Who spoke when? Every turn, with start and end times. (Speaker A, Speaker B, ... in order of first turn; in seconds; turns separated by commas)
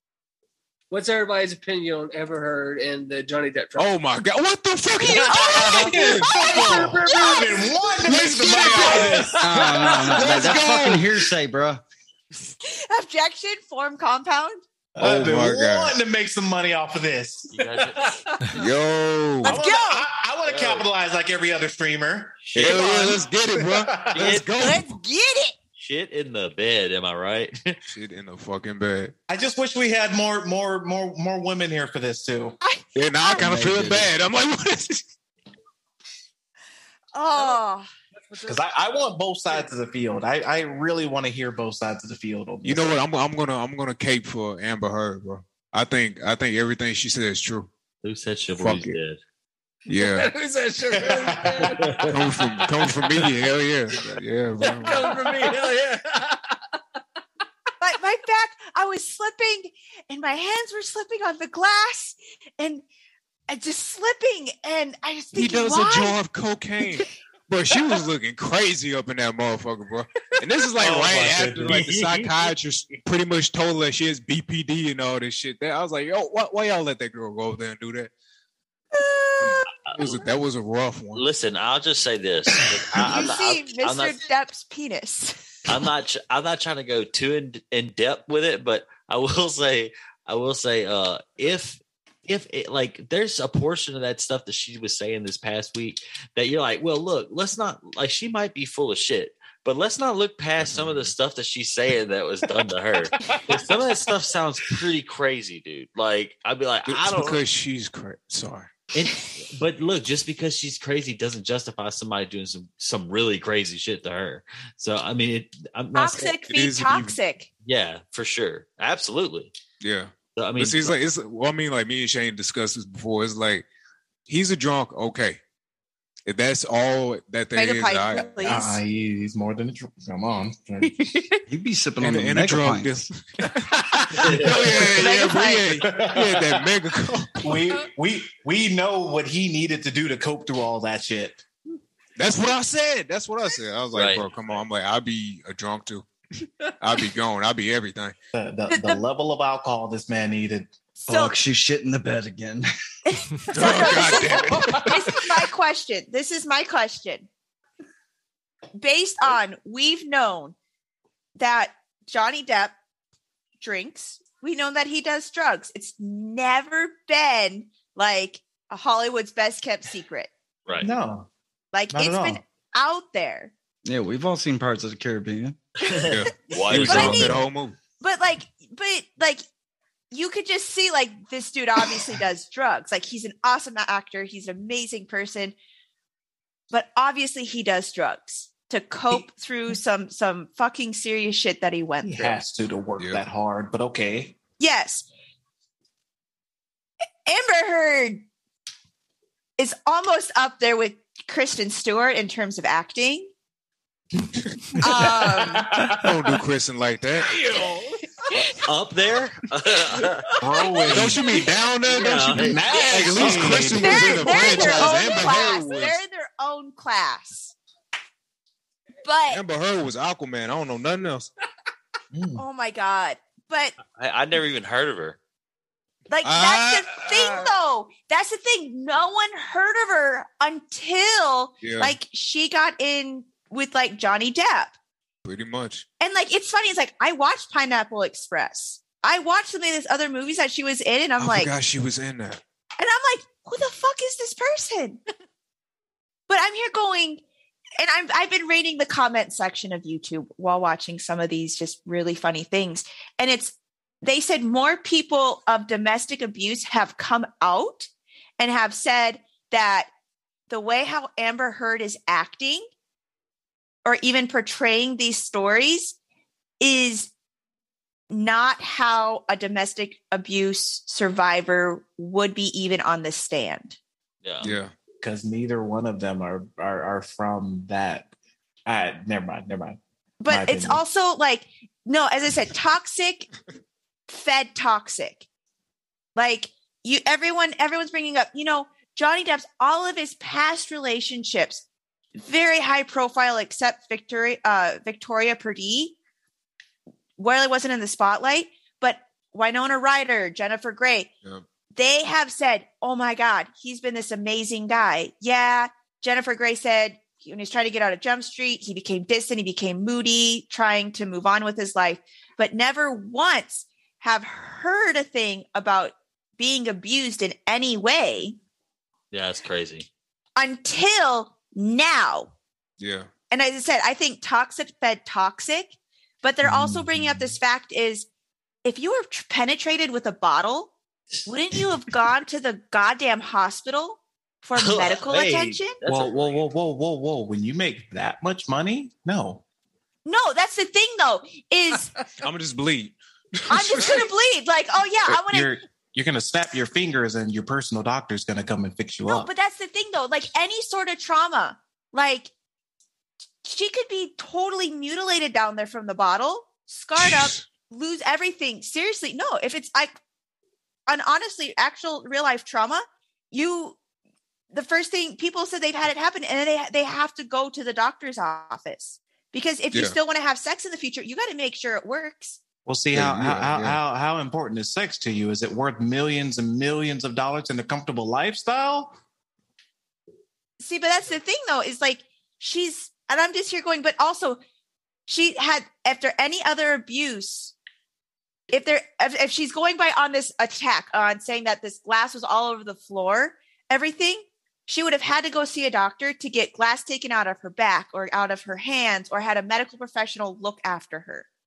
Speaker A: 0.9-3.9, Speaker B: 3.8-6.9, Speaker C: 5.1-10.6, Speaker D: 5.4-9.4, Speaker B: 8.1-9.5, Speaker E: 9.4-11.8, Speaker B: 10.1-11.1, Speaker D: 10.2-10.6, Speaker C: 12.5-14.6, Speaker D: 15.0-17.9, Speaker B: 15.0-16.0, Speaker F: 17.5-18.6, Speaker B: 18.6-19.6, Speaker C: 19.4-20.1, Speaker D: 19.4-24.4, Speaker F: 20.5-20.9, Speaker F: 22.4-22.9, Speaker B: 22.6-25.0, Speaker C: 22.6-23.2, Speaker F: 24.1-24.5, Speaker C: 24.6-25.6, Speaker F: 25.8-27.8, Speaker B: 27.9-29.1, Speaker D: 29.3-32.6, Speaker C: 32.6-33.7, Speaker B: 33.0-35.1, Speaker C: 37.1-37.9, Speaker A: 37.4-37.6, Speaker A: 38.1-38.6, Speaker D: 38.5-42.9, Speaker B: 42.6-47.7, Speaker F: 48.0-49.2, Speaker B: 48.6-49.0, Speaker B: 49.9-50.3, Speaker A: 50.0-52.1, Speaker D: 50.9-51.8, Speaker B: 52.1-55.0, Speaker A: 54.6-56.6, Speaker C: 57.8-62.8, Speaker C: 63.5-66.2, Speaker B: 65.3-78.1, Speaker D: 70.8-71.9, Speaker F: 71.6-73.0, Speaker C: 78.9-79.7, Speaker B: 79.4-81.2, Speaker F: 81.2-84.2, Speaker C: 83.0-85.6, Speaker F: 85.7-107.4, Speaker B: 100.6-101.1, Speaker D: 103.3-103.8, Speaker B: 106.9-108.7, Speaker F: 108.9-116.4, Speaker C: 115.9-117.5, Speaker B: 116.5-117.2, Speaker F: 117.7-119.5, Speaker B: 119.8-123.7, Speaker F: 120.4-121.0, Speaker B: 124.3-125.4, Speaker B: 126.3-128.5, Speaker C: 127.5-128.8, Speaker D: 128.4-131.2, Speaker E: 131.5-133.1, Speaker B: 132.0-137.6, Speaker D: 133.9-135.0, Speaker F: 134.2-134.7, Speaker C: 134.8-136.0, Speaker D: 135.8-136.7, Speaker D: 137.4-141.4, Speaker B: 142.2-146.1, Speaker F: 143.9-144.2, Speaker B: 146.8-148.1, Speaker D: 148.3-150.7, Speaker C: 148.7-149.0, Speaker C: 151.1-151.3, Speaker E: 151.1-152.7, Speaker C: 153.1-157.3, Speaker B: 153.5-155.1, Speaker D: 153.7-154.8, Speaker C: 158.8-160.6, Speaker C: 161.4-162.8, Speaker C: 163.6-170.3, Speaker D: 170.8-171.3, Speaker C: 171.7-173.5, Speaker D: 171.9-172.4, Speaker E: 173.8-175.6, Speaker F: 175.8-177.4, Speaker C: 175.8-176.1, Speaker B: 176.1-177.8, Speaker C: 176.8-177.4, Speaker C: 178.0-179.4, Speaker C: 180.1-185.6, Speaker C: 186.7-192.4, Speaker D: 192.0-194.4, Speaker C: 194.6-195.1, Speaker C: 197.3-198.2, Speaker C: 199.6-203.3, Speaker C: 204.8-205.7, Speaker D: 204.9-206.3, Speaker B: 205.9-207.3, Speaker A: 207.2-208.0, Speaker F: 208.6-210.2, Speaker D: 210.4-211.2, Speaker C: 210.8-211.4, Speaker B: 210.9-216.0, Speaker F: 211.9-212.9, Speaker D: 212.5-214.9, Speaker A: 212.7-213.2, Speaker C: 213.8-217.5, Speaker C: 219.1-219.4, Speaker B: 219.3-221.3, Speaker D: 222.1-222.4, Speaker C: 222.4-223.8, Speaker F: 223.9-225.2, Speaker C: 226.1-234.7, Speaker B: 226.2-227.1, Speaker B: 231.6-232.0, Speaker B: 235.2-235.8, Speaker C: 236.0-241.5, Speaker B: 241.2-242.4, Speaker C: 242.8-245.0, Speaker C: 246.3-247.2, Speaker C: 247.8-259.9, Speaker C: 260.5-262.6, Speaker C: 263.9-266.0, Speaker C: 266.6-267.1, Speaker C: 268.1-273.8, Speaker F: 274.2-274.5, Speaker B: 274.4-274.7, Speaker D: 275.0-278.1, Speaker D: 278.7-280.8, Speaker C: 280.2-283.3, Speaker C: 284.1-285.2, Speaker C: 286.2-291.6, Speaker C: 292.2-295.9, Speaker C: 297.2-301.1, Speaker C: 301.7-318.4, Speaker F: 319.1-319.9, Speaker C: 320.4-322.3, Speaker B: 322.8-323.1, Speaker C: 323.3-328.1, Speaker D: 326.4-327.4, Speaker C: 328.6-330.7, Speaker C: 331.3-335.8, Speaker F: 334.6-336.4, Speaker D: 335.9-339.4, Speaker C: 340.1-342.1, Speaker B: 342.2-344.1, Speaker C: 343.5-345.5, Speaker D: 345.1-349.3, Speaker C: 349.1-352.3, Speaker C: 353.4-359.9, Speaker C: 360.9-363.8, Speaker C: 364.5-372.4, Speaker D: 372.7-379.0, Speaker B: 372.9-373.8, Speaker C: 380.6-384.4, Speaker C: 385.1-387.5, Speaker C: 388.5-401.3